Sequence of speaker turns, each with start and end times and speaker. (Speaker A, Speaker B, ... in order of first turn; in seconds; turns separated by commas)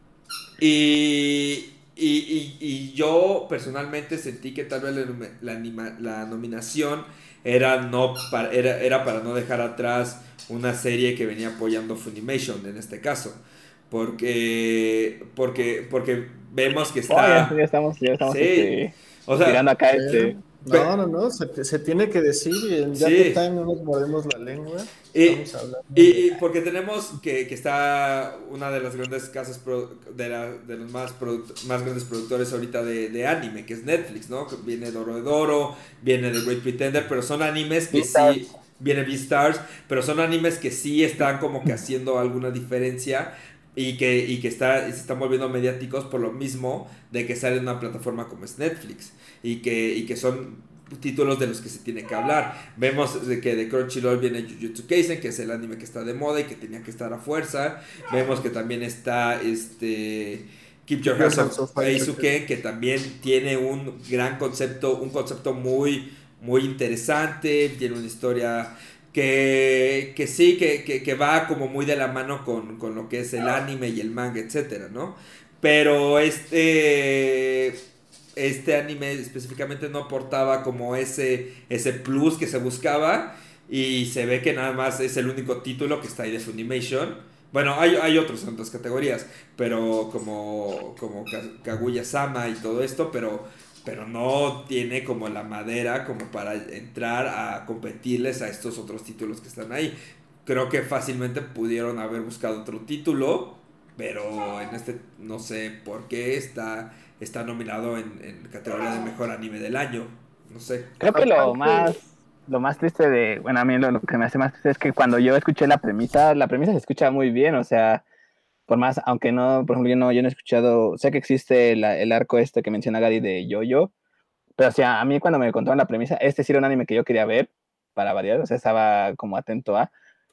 Speaker A: 0.6-17.5, Speaker B: 17.1-18.9, Speaker A: 18.2-19.6, Speaker B: 19.4-20.4, Speaker C: 19.9-26.4, Speaker A: 22.9-23.4, Speaker A: 25.1-25.4, Speaker A: 25.9-77.8, Speaker B: 37.9-38.4, Speaker C: 61.0-62.3, Speaker A: 78.4-111.0, Speaker B: 111.0-118.0, Speaker C: 111.1-112.0, Speaker B: 118.7-123.9, Speaker B: 124.6-129.9